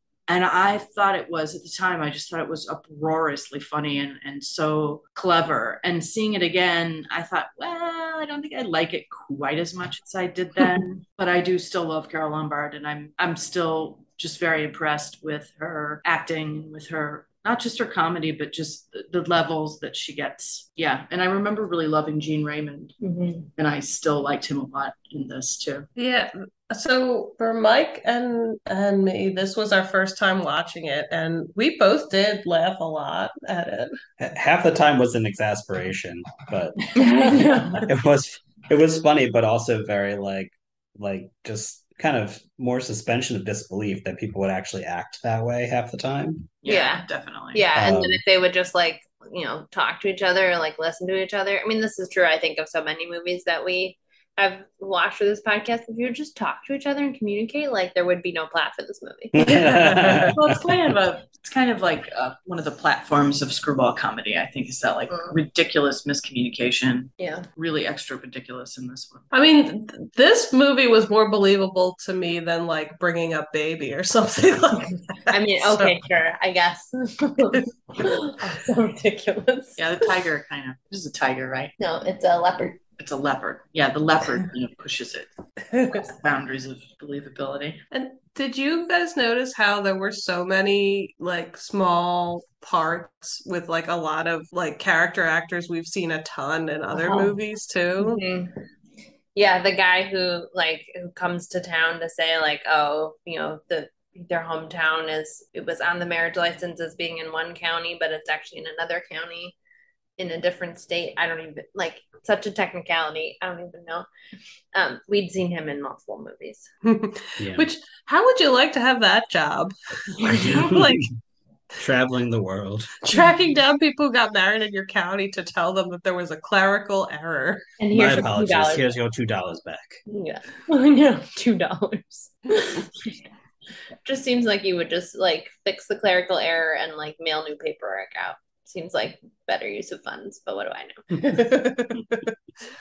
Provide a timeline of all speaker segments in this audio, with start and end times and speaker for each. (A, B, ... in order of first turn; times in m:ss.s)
0:00.3-0:23.0 A
0:23.0-0:23.5 B
0:23.6-0:25.9 A
0:26.0-0:34.0 C
0:34.2-0:46.5 D
0:37.0-0:37.3 B
0:37.0-0:37.8 A
0:46.6-0:47.6 A
0:46.6-0:59.4 B
0:47.7-0:48.2 D
0:59.3-1:00.4 D
0:59.4-1:00.4 C
1:00.4-1:09.3 A
1:05.1-1:05.3 B
1:07.2-1:07.4 B
1:09.3-1:15.9 C
1:15.3-1:20.0 B
1:19.8-1:21.7 A
1:21.8-1:22.8 B
1:23.0-1:25.3 A
1:25.7-1:26.0 C
1:25.9-1:27.8 A
1:27.9-1:38.2 C
1:36.9-1:37.4 B
1:38.0-1:38.5 B
1:39.3-1:49.5 B
1:50.2-1:54.1 B
1:54.7-1:56.7 B
1:56.8-2:01.0 C
1:57.4-1:57.7 D
2:00.3-2:01.0 D
2:01.8-2:03.0 D
2:03.0-2:07.6 C
2:07.8-2:08.9 B
2:07.9-2:10.0 D
2:10.1-2:13.2 B
2:14.0-2:21.0 B
2:21.2-2:22.3 C